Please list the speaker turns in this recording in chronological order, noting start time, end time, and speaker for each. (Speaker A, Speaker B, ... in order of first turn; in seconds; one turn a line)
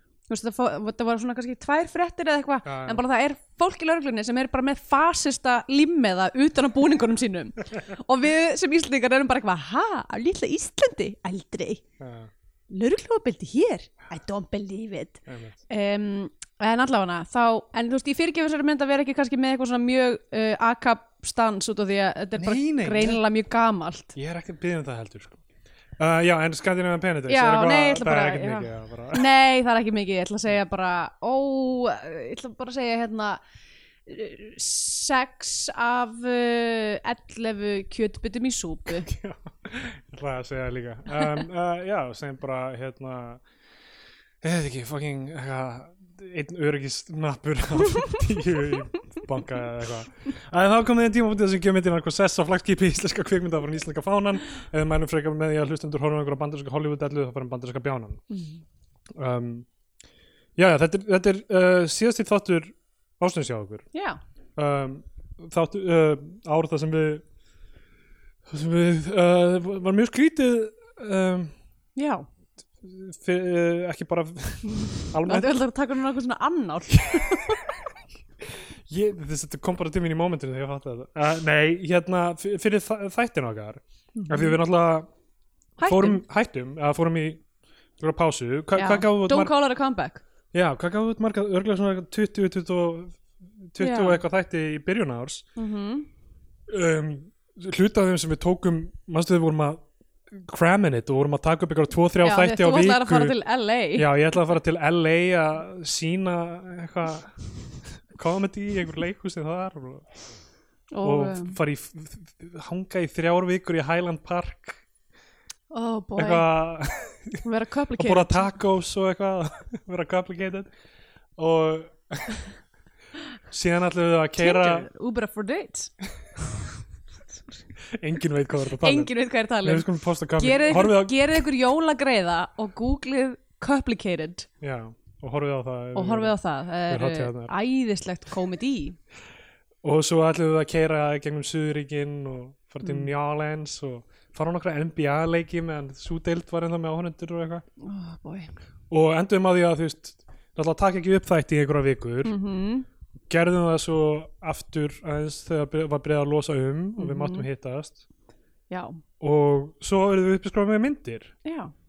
Speaker A: 0.3-11.8
Speaker B: 2.6-3.0
Speaker B: 12.0-12.3
Speaker A: 12.7-24.1
Speaker B: 15.3-15.6
Speaker B: 22.4-23.2
Speaker B: 24.2-25.4
Speaker B: 26.0-29.2
Speaker A: 27.3-33.4
Speaker A: 34.1-39.1
Speaker B: 38.9-43.4
Speaker B: 44.4-58.2
Speaker A: 58.3-58.6
Speaker B: 59.2-59.7
Speaker B: 60.6-63.9
Speaker A: 63.9-64.2
Speaker B: 64.6-67.2
Speaker B: 68.5-71.5
Speaker A: 72.0-72.3
Speaker B: 72.8-75.5
Speaker A: 75.0-77.6
Speaker B: 78.9-85.1
Speaker A: 84.2-84.6
Speaker A: 85.8-86.2
Speaker B: 85.8-87.4
Speaker B: 88.0-89.5
Speaker A: 88.8-90.2
Speaker B: 90.5-95.5
Speaker A: 93.8-94.2
Speaker A: 95.6-96.1
Speaker B: 96.7-103.3
Speaker A: 102.2-104.1
Speaker B: 104.0-110.1
Speaker A: 110.9-111.6
Speaker B: 111.0-114.8
Speaker A: 115.7-116.5
Speaker B: 116.2-117.5
Speaker A: 117.4-118.5
Speaker B: 118.0-120.7
Speaker B: 121.4-122.5
Speaker B: 123.5-124.9
Speaker A: 124.4-126.5
Speaker B: 127.9-131.2
Speaker A: 128.8-134.5
Speaker B: 134.6-136.3
Speaker A: 135.9-139.0
Speaker B: 136.9-137.5
Speaker B: 139.8-147.6
Speaker A: 142.8-143.1
Speaker A: 147.8-148.6
Speaker B: 148.9-152.3
Speaker A: 152.2-152.9
Speaker B: 153.3-158.0
Speaker A: 157.0-157.5
Speaker A: 158.7-159.0
Speaker B: 159.2-161.3
Speaker A: 161.4-161.7